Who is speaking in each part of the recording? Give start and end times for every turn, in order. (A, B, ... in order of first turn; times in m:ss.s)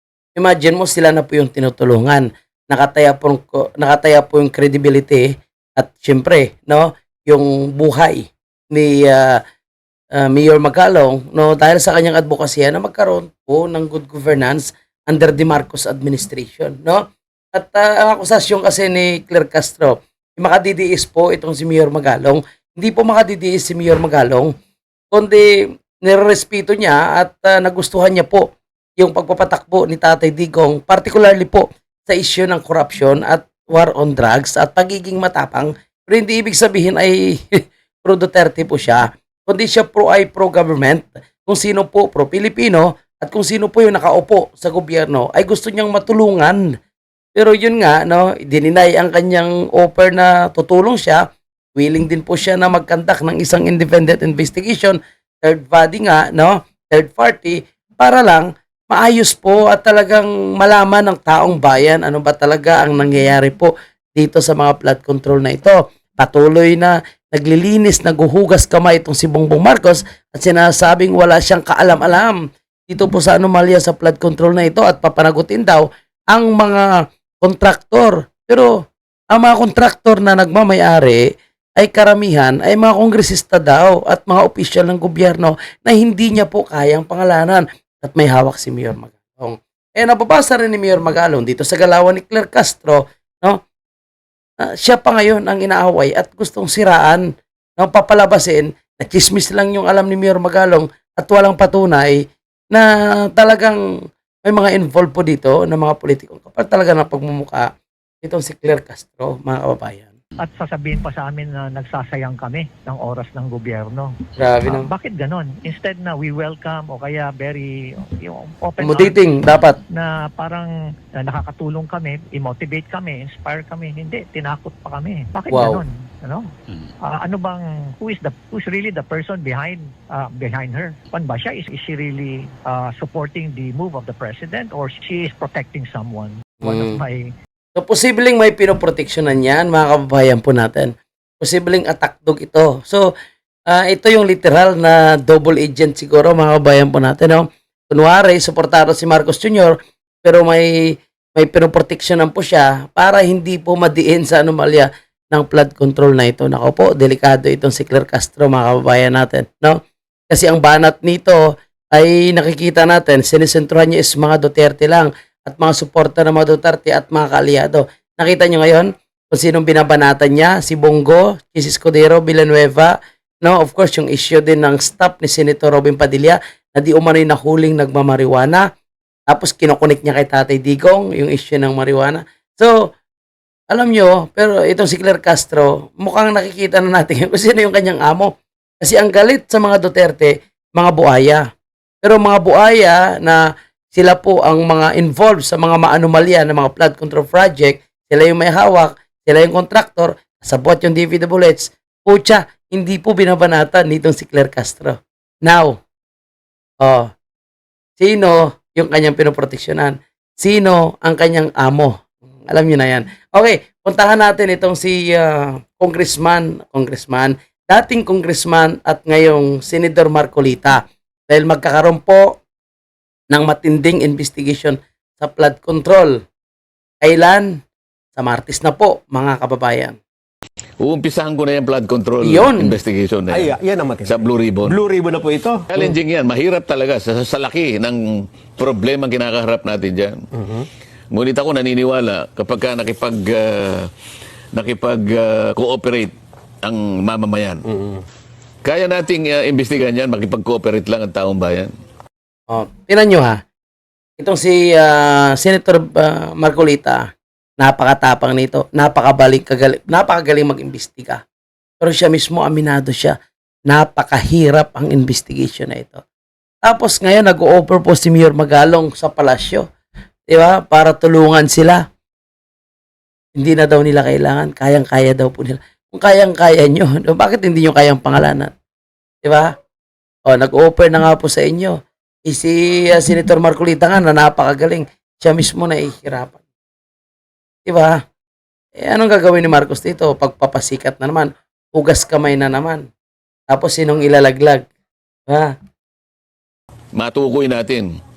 0:00.4-0:09.4 A
0:10.1-0:24.5 A
0:25.1-0:46.6 A
0:47.3-0:51.2 A
0:51.8-1:16.8 A
1:17.4-1:18.8 A
1:19.3-1:33.6 A
1:34.6-1:37.2 A
1:37.8-1:43.8 A
1:44.4-1:50.1 A
1:50.4-1:59.1 B
1:54.4-1:54.9 A
1:58.8-1:59.8 A
1:59.9-2:06.5 B
2:05.5-2:05.8 A
2:07.0-2:17.3 B
2:16.6-2:17.0 A
2:17.7-2:23.1 A
2:23.7-2:39.8 A
2:40.3-2:41.4 A
2:41.9-2:58.6 A
2:59.3-3:02.9 A
3:03.7-3:11.5 A
3:12.0-3:13.4 A
3:13.9-3:25.8 A
3:26.8-3:27.1 A
3:28.0-3:42.4 A
3:43.3-3:46.2 A
3:47.0-3:47.6 A
3:48.2-3:50.0 A
3:50.8-3:53.5 C
3:52.2-3:52.7 A
3:53.3-3:55.9 D
3:54.0-3:54.8 C
3:55.7-4:00.2 C
4:00.3-4:00.6 D
4:01.1-4:03.9 C
4:04.5-4:06.1 C
4:06.6-4:07.6 C
4:07.7-4:08.0 D
4:08.6-4:11.7 C
4:12.5-4:13.4 A
4:14.2-4:17.1 A
4:17.6-4:21.2 A
4:21.8-4:23.2 A
4:23.7-4:26.0 A
4:26.6-4:29.7 A
4:30.3-4:31.8 A
4:33.4-4:38.5 A
4:39.2-4:39.5 A
4:40.3-4:46.4 A
4:47.6-4:48.0 A
4:48.8-4:52.9 A
4:53.5-4:54.6 A
4:55.3-4:55.5 A
4:56.9-4:57.9 C